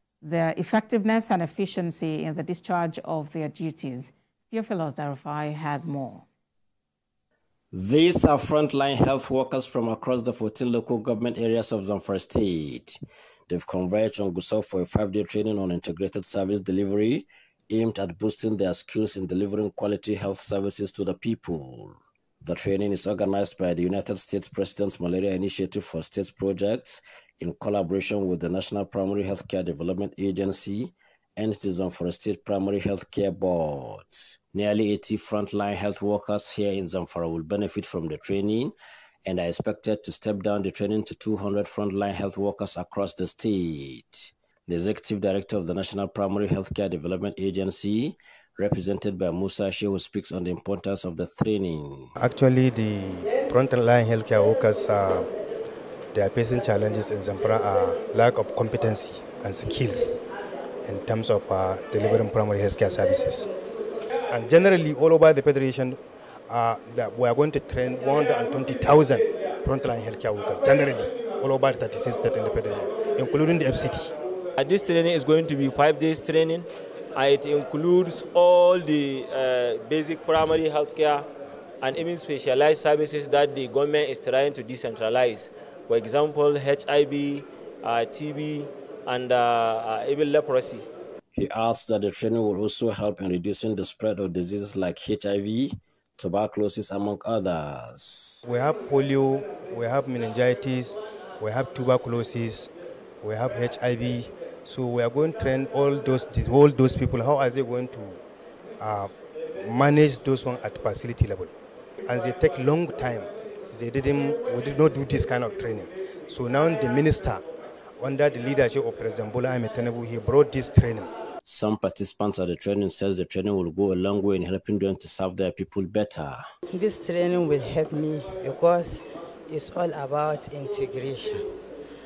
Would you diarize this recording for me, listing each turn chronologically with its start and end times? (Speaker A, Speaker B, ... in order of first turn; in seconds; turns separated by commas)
Speaker A: 0.2-6.2, Speaker B: 7.7-13.0, Speaker B: 13.5-52.1, Speaker C: 52.2-55.3, Speaker C: 56.1-60.2, Speaker C: 60.8-63.5, Speaker C: 64.3-74.1, Speaker D: 74.6-81.3, Speaker D: 81.8-90.8, Speaker B: 91.3-98.4, Speaker C: 98.5-108.2, Speaker C: 108.8-111.5, Speaker C: 112.0-117.4, Speaker C: 118.0-121.1, Speaker B: 121.4-126.4, Speaker E: 126.7-131.4